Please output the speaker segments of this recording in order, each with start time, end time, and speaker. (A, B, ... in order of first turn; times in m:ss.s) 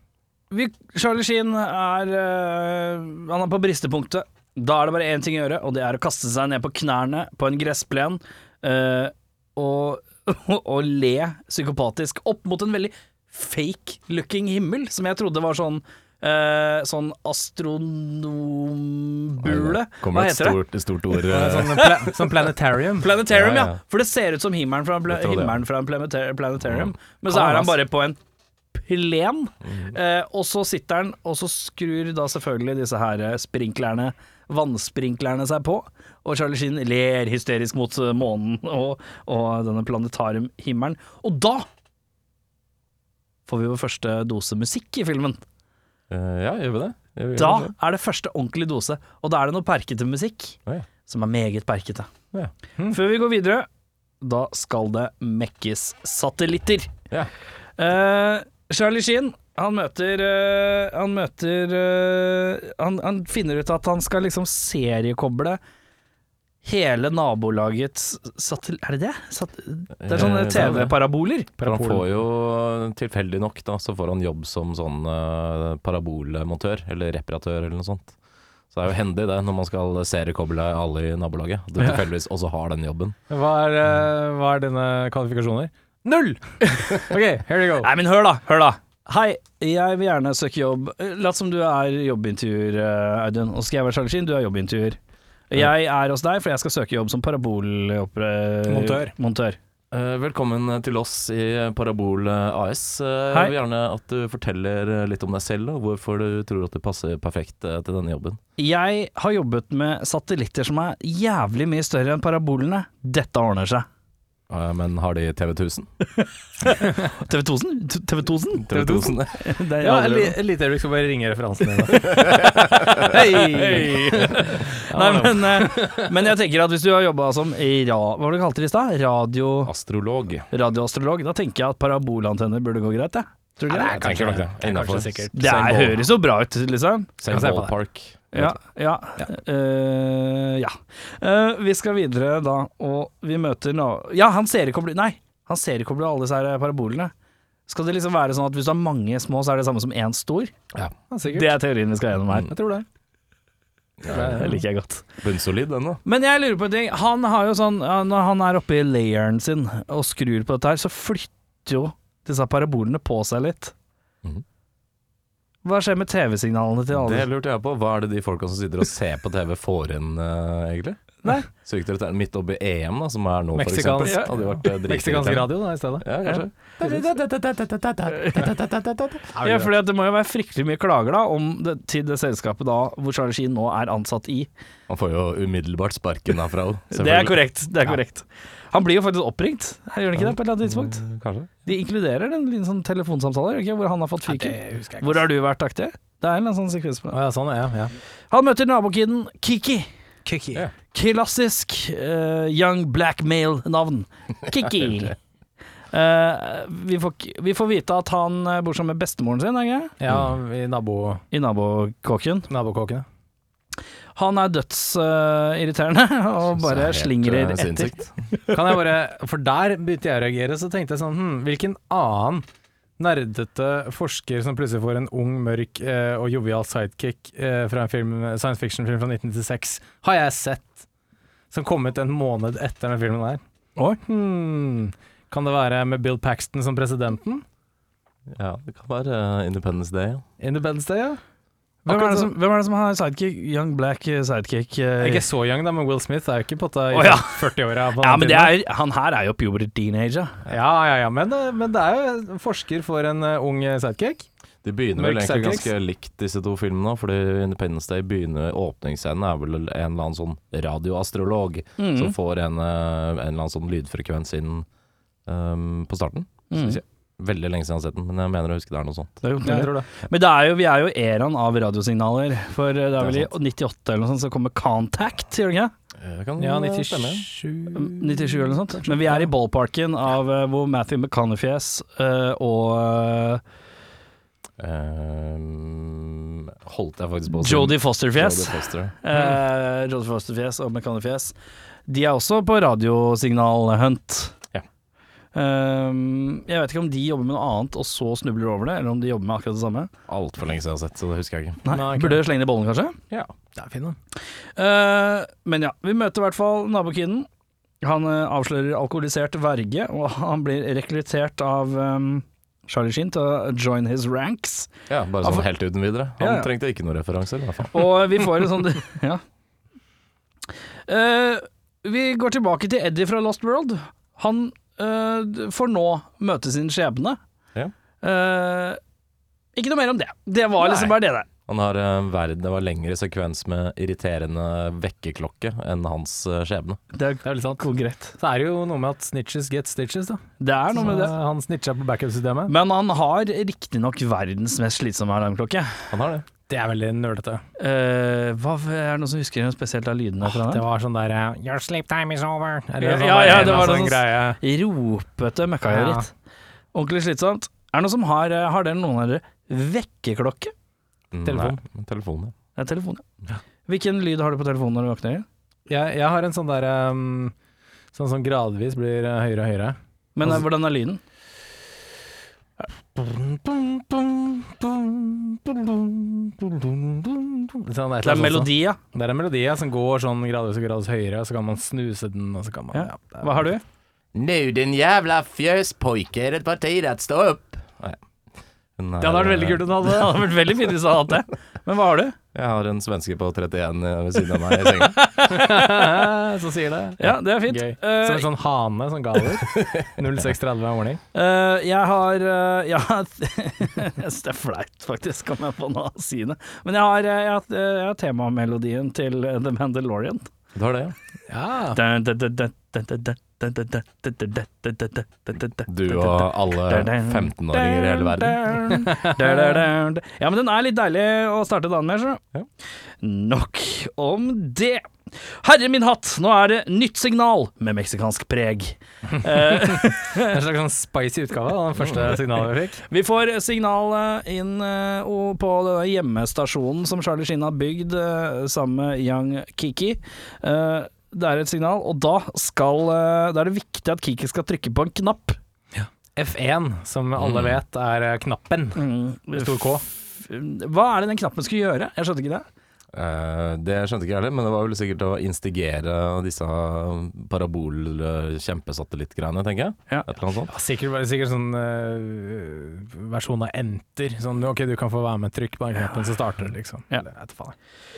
0:00.5-0:20.6 A
0:19.4-0:22.1 B
0:21.3-0:23.1 C
0:23.0-0:28.2 A
0:23.2-0:23.8 B
0:25.1-0:25.6 B
0:26.6-0:26.9 B
0:27.3-0:27.8 C
0:28.7-0:41.6 A
0:29.6-0:29.9 B
0:43.5-0:45.4 A
0:46.1-0:47.7 B
0:47.3-0:52.1 A
0:52.9-0:53.7 A
0:54.2-0:56.9 A
0:57.8-1:05.6 A
1:06.6-1:11.5 A
1:10.0-1:10.9 B
1:10.6-1:10.8 C
1:11.6-1:12.0 C
1:11.6-1:18.1 B
1:18.7-1:23.2 B
1:23.3-1:27.9 C
1:27.8-1:35.0 A
1:35.5-1:39.6 A
1:38.7-1:39.1 C
1:39.9-1:48.4 B
1:48.6-1:53.8 A
1:54.5-1:55.9 B
1:56.2-2:00.4 A
1:58.6-1:59.4 B
1:58.7-1:59.2 C
1:59.8-2:06.1 C
2:02.1-2:03.0 B
2:03.0-2:09.7 A
2:09.7-2:10.5 B
2:10.5-2:14.0 A
2:13.7-2:16.0 C
2:13.9-2:15.7 B
2:15.3-2:17.1 A
2:17.2-2:18.6 B
2:17.3-2:17.7 C
2:18.3-2:27.1 A
2:27.7-2:30.5 A
2:31.0-2:31.6 C
2:31.3-2:32.5 A
2:32.3-2:32.8 C
2:34.0-2:34.6 B
2:34.1-2:35.1 A
2:34.1-2:34.5 C
2:35.2-2:36.0 B
2:36.0-2:43.7 A
2:45.6-2:47.3 A
2:46.9-2:59.3 B
2:53.5-2:56.1 C
2:54.0-2:54.3 A
2:58.1-2:58.4 A
2:59.3-2:59.7 C
2:59.4-3:04.5 A
3:04.9-3:07.4 B
3:06.9-3:11.0 A
3:10.2-3:11.5 B
3:11.6-3:17.2 A
3:14.3-3:15.2 C
3:17.1-3:17.9 C
3:18.3-3:19.9 A
3:20.2-3:20.6 C
3:20.9-3:25.2 A
3:25.9-3:29.9 A
3:30.0-3:31.2 C
3:30.1-3:30.3 B
3:31.3-3:32.5 A
3:32.5-3:33.0 C
3:34.1-3:38.5 A
3:36.5-3:38.1 B
3:38.5-3:42.4 C
3:43.0-3:50.8 C
3:51.5-3:53.4 C
3:54.0-3:57.4 C
3:58.3-4:00.2 B
4:00.4-4:01.2 C
4:01.8-4:02.3 C
4:01.8-4:05.2 A
4:05.0-4:08.6 C
4:06.9-4:07.4 A
4:08.0-4:10.4 A
4:10.5-4:14.3 C
4:14.6-4:24.6 B
4:15.0-4:15.7 C
4:21.8-4:22.1 A
4:25.2-4:29.2 B
4:26.5-4:26.8 A
4:29.2-4:35.7 A
4:29.4-4:29.9 C
4:33.0-4:33.3 B
4:36.0-4:37.2 B
4:36.4-4:39.3 C
4:37.7-4:43.4 A
4:44.6-4:48.9 B
4:47.3-4:51.3 A
4:51.9-4:54.3 A
4:55.3-4:59.9 A
5:00.1-5:01.6 B
5:01.6-5:03.0 A
5:01.7-5:02.2 C
5:03.5-5:04.0 C
5:04.6-5:07.3 A
5:07.8-5:14.7 A
5:14.9-5:18.0 B
5:16.2-5:16.5 A
5:17.7-5:19.2 A
5:20.9-5:27.2 A
5:28.0-5:28.8 A
5:29.6-5:31.3 A
5:30.6-5:36.8 B
5:36.9-5:38.2 A
5:37.2-5:37.6 C
5:38.2-5:42.5 C
5:40.4-5:41.1 A
5:42.5-5:45.9 A
5:45.9-5:46.2 B
5:46.5-5:47.4 C
5:47.6-5:50.6 A
5:50.2-5:54.4 C
5:52.8-5:56.1 A
5:55.7-5:56.1 C
5:56.7-6:00.5 A
6:01.1-6:02.3 B
6:01.2-6:01.6 C
6:02.6-6:03.0 A
6:03.7-6:05.2 A
6:05.7-6:07.3 C
6:07.9-6:10.3 C
6:10.2-6:11.0 A
6:12.6-6:23.4 C
6:18.0-6:18.8 A
6:22.7-6:23.6 A
6:24.1-6:28.0 B
6:28.8-6:29.9 B
6:29.0-6:32.2 A
6:32.3-6:35.0 B
6:34.8-6:35.8 A
6:35.2-6:41.0 C
6:37.0-6:38.3 A
6:39.5-6:39.9 B
6:41.1-6:50.3 A
6:50.5-6:50.9 B
6:51.3-6:51.8 C
6:51.7-7:02.2 A
6:55.7-6:58.8 B
7:03.0-7:10.3 A
7:09.3-7:12.8 C
7:12.9-7:25.4 A
7:25.7-7:29.8 C
7:27.2-7:27.6 B
7:28.7-7:32.4 A
7:32.9-7:40.5 B
7:40.5-7:47.5 C